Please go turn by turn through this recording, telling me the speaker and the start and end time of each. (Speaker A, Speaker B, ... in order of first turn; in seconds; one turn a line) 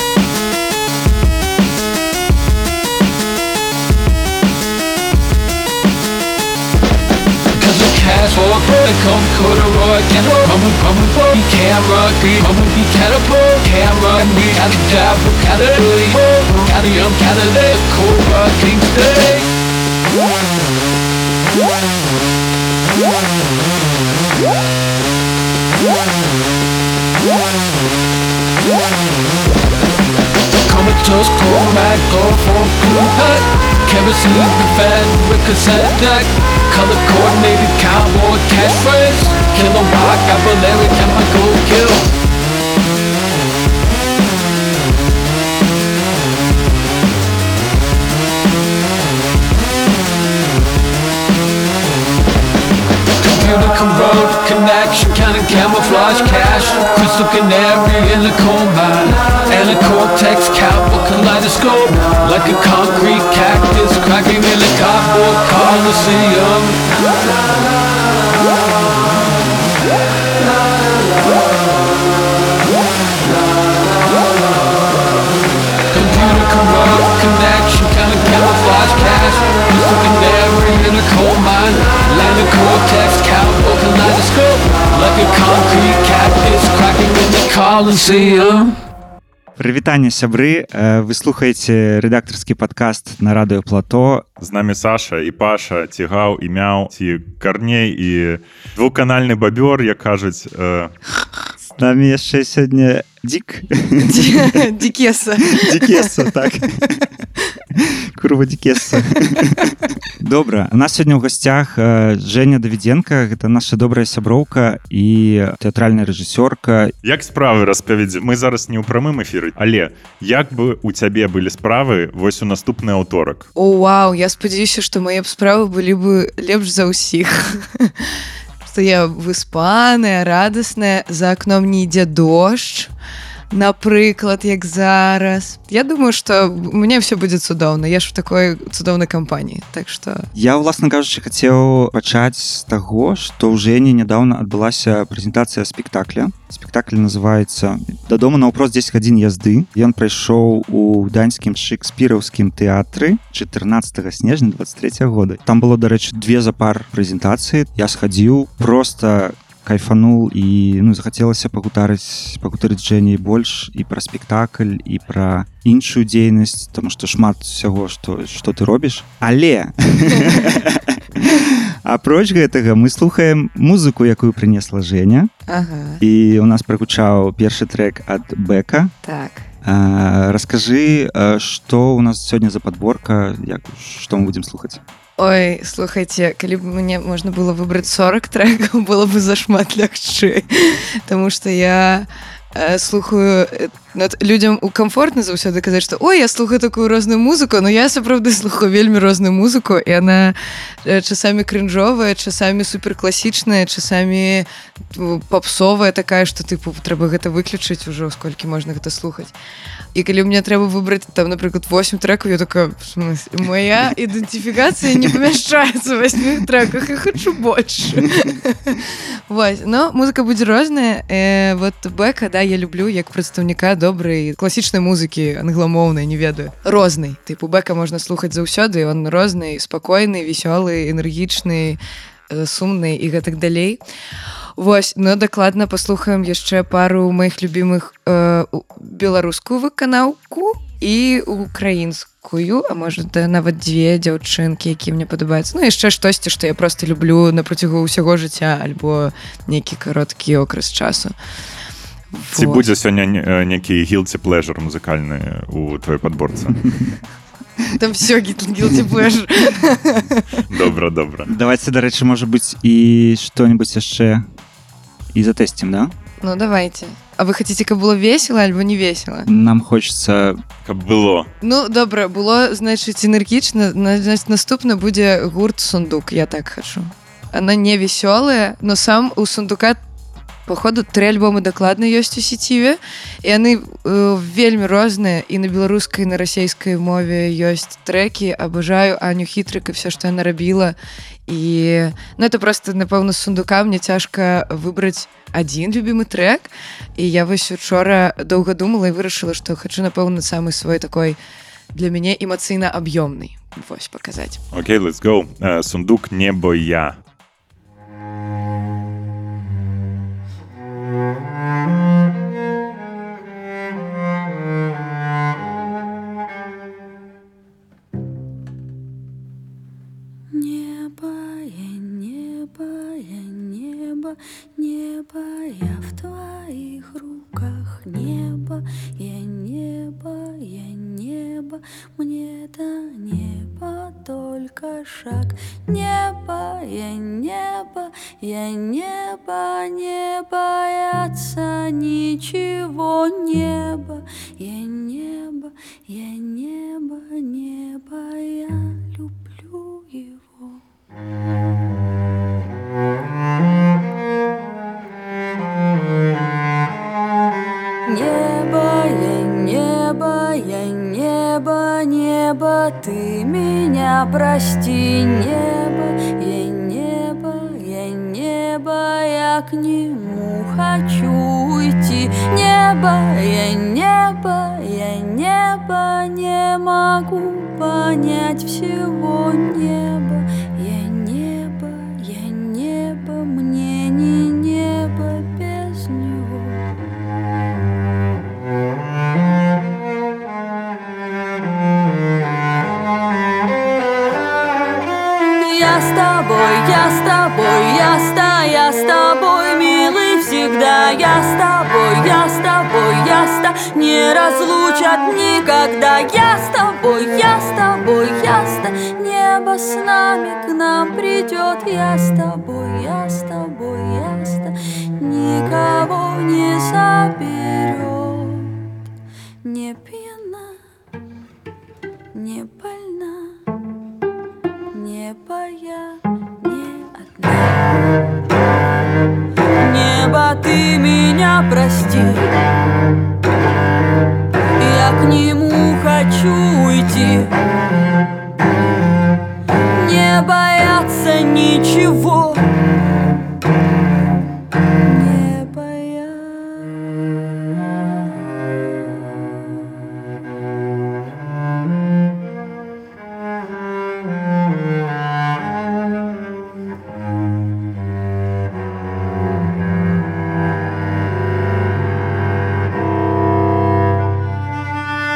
Speaker A: 7.5-19.5
Speaker A: 30.6-42.1
Speaker A: 53.2-67.1
Speaker A: 75.9-88.8
Speaker B: 89.5-94.2
Speaker C: 94.4-100.9
Speaker B: 101.7-104.6
Speaker D: 104.0-106.3
Speaker B: 105.5-107.0
Speaker B: 107.7-116.9
Speaker C: 117.0-123.5
Speaker D: 123.5-128.1
Speaker D: 128.6-132.9
Speaker D: 133.5-140.3
Speaker B: 140.3-175.3
Speaker D: 170.2-170.5
Speaker D: 175.5-176.0
Speaker B: 176.0-178.9
Speaker D: 179.0-179.5
Speaker B: 179.6-184.8
Speaker D: 185.2-209.3
Speaker D: 209.9-231.8
Speaker D: 232.3-233.8
Speaker D: 234.6-251.1
Speaker D: 252.1-252.7
Speaker C: 252.3-256.7
Speaker D: 257.8-260.2
Speaker C: 260.5-261.3
Speaker B: 261.3-264.2
Speaker B: 265.1-265.9
Speaker D: 266.2-269.3
Speaker B: 269.3-270.4
Speaker C: 270.6-271.3
Speaker D: 271.4-279.8
Speaker D: 280.5-290.7
Speaker D: 291.3-301.2
Speaker D: 301.7-304.4
Speaker C: 304.5-306.9
Speaker E: 320.3-350.6
Speaker E: 357.9-386.6
Speaker E: 395.3-418.6
Speaker E: 419.4-420.6
Speaker E: 422.1-423.4
Speaker E: 424.7-427.7
Speaker E: 429.6-432.3
Speaker E: 434.6-437.3
Speaker E: 439.7-442.4
Speaker E: 444.8-446.8